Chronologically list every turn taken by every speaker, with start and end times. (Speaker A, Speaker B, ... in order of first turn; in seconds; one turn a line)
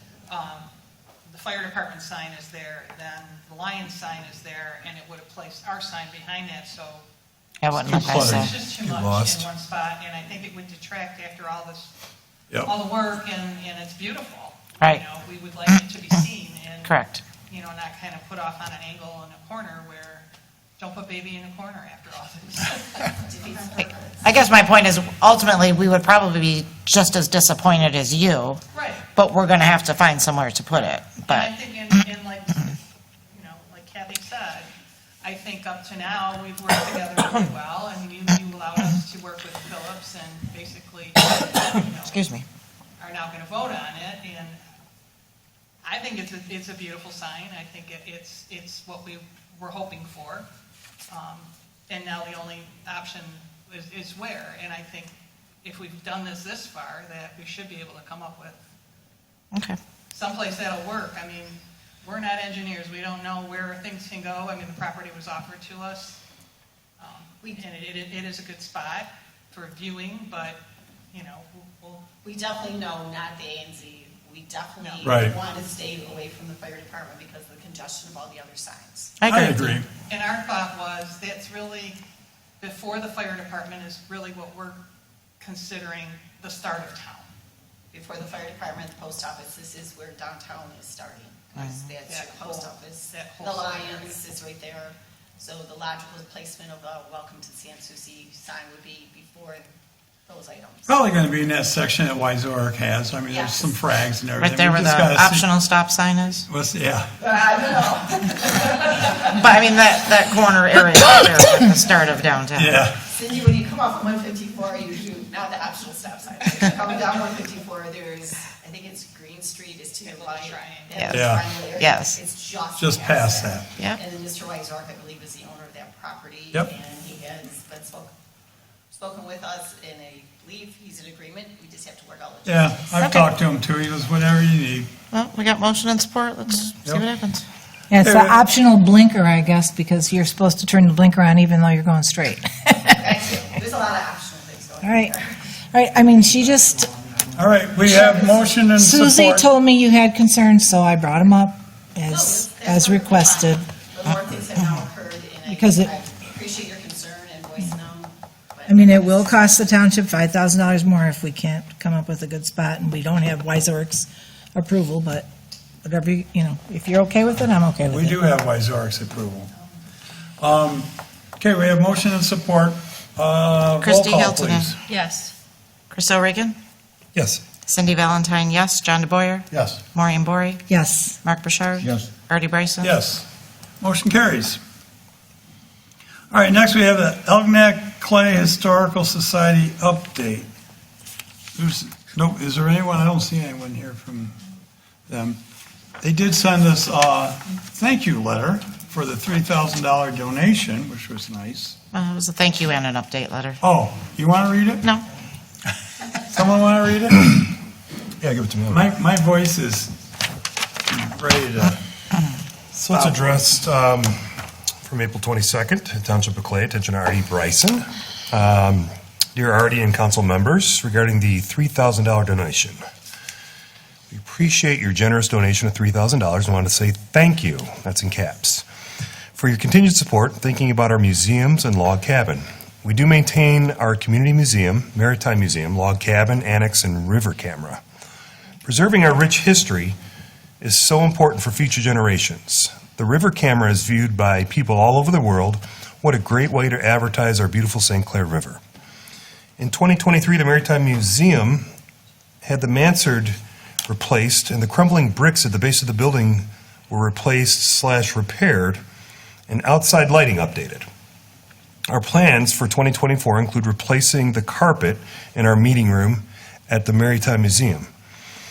Speaker A: 0.3-0.7
Speaker A: 1.3-7.0
Speaker B: 7.6-8.5
Speaker A: 7.8-11.9
Speaker C: 7.9-8.5
Speaker D: 8.1-9.5
Speaker A: 12.6-20.3
Speaker B: 16.9-17.2
Speaker A: 20.8-23.2
Speaker E: 23.2-24.3
Speaker B: 24.2-28.6
Speaker A: 28.7-29.1
Speaker B: 29.1-31.5
Speaker A: 31.3-32.8
Speaker A: 33.3-34.7
Speaker A: 35.2-42.2
Speaker B: 42.0-42.5
Speaker A: 43.0-44.6
Speaker A: 45.8-50.5
Speaker A: 51.1-58.6
Speaker B: 59.5-59.8
Speaker A: 60.1-66.2
Speaker A: 67.0-70.6
Speaker A: 71.1-72.0
Speaker E: 72.2-79.2
Speaker A: 74.8-75.1
Speaker C: 75.0-75.4
Speaker B: 79.2-79.8
Speaker C: 79.2-79.9
Speaker A: 80.1-82.0
Speaker A: 82.6-84.8
Speaker A: 85.4-87.3
Speaker E: 87.9-99.7
Speaker B: 91.6-91.9
Speaker A: 92.1-94.2
Speaker E: 100.3-100.9
Speaker C: 100.9-105.5
Speaker E: 103.3-103.8
Speaker B: 104.4-106.5
Speaker C: 106.5-107.1
Speaker E: 107.2-109.4
Speaker B: 109.2-112.7
Speaker C: 112.5-113.0
Speaker E: 113.0-128.1
Speaker A: 120.1-121.1
Speaker B: 121.0-121.2
Speaker C: 121.1-121.5
Speaker B: 121.8-122.2
Speaker C: 122.8-123.7
Speaker E: 128.9-133.3
Speaker C: 132.5-134.9
Speaker B: 133.0-133.3
Speaker B: 135.1-137.4
Speaker F: 137.9-143.0
Speaker C: 138.0-138.4
Speaker E: 143.0-145.4
Speaker F: 144.8-145.2
Speaker F: 145.7-146.9
Speaker C: 147.3-149.5
Speaker F: 147.8-153.7
Speaker E: 152.1-159.6
Speaker F: 155.5-155.9
Speaker F: 158.7-165.3
Speaker F: 165.8-168.2
Speaker C: 167.4-169.5
Speaker C: 170.4-174.8
Speaker B: 173.8-174.7
Speaker B: 175.9-176.6
Speaker D: 177.2-177.4
Speaker B: 177.7-180.6
Speaker C: 179.5-179.8
Speaker F: 180.7-181.2
Speaker B: 181.2-183.0
Speaker C: 182.8-183.3
Speaker C: 183.8-184.6
Speaker C: 186.3-190.5
Speaker C: 191.6-194.4
Speaker C: 195.1-195.4
Speaker C: 196.0-201.8
Speaker B: 201.9-203.6
Speaker C: 203.6-204.8
Speaker C: 206.2-207.5
Speaker D: 208.2-208.9
Speaker C: 208.7-209.9
Speaker C: 210.9-211.8
Speaker D: 212.7-222.8
Speaker C: 212.9-213.4
Speaker D: 224.1-228.7
Speaker D: 229.3-237.8
Speaker D: 238.6-240.0
Speaker D: 240.6-248.6
Speaker D: 249.6-251.7
Speaker D: 252.4-258.8
Speaker D: 259.5-260.9
Speaker D: 261.9-267.9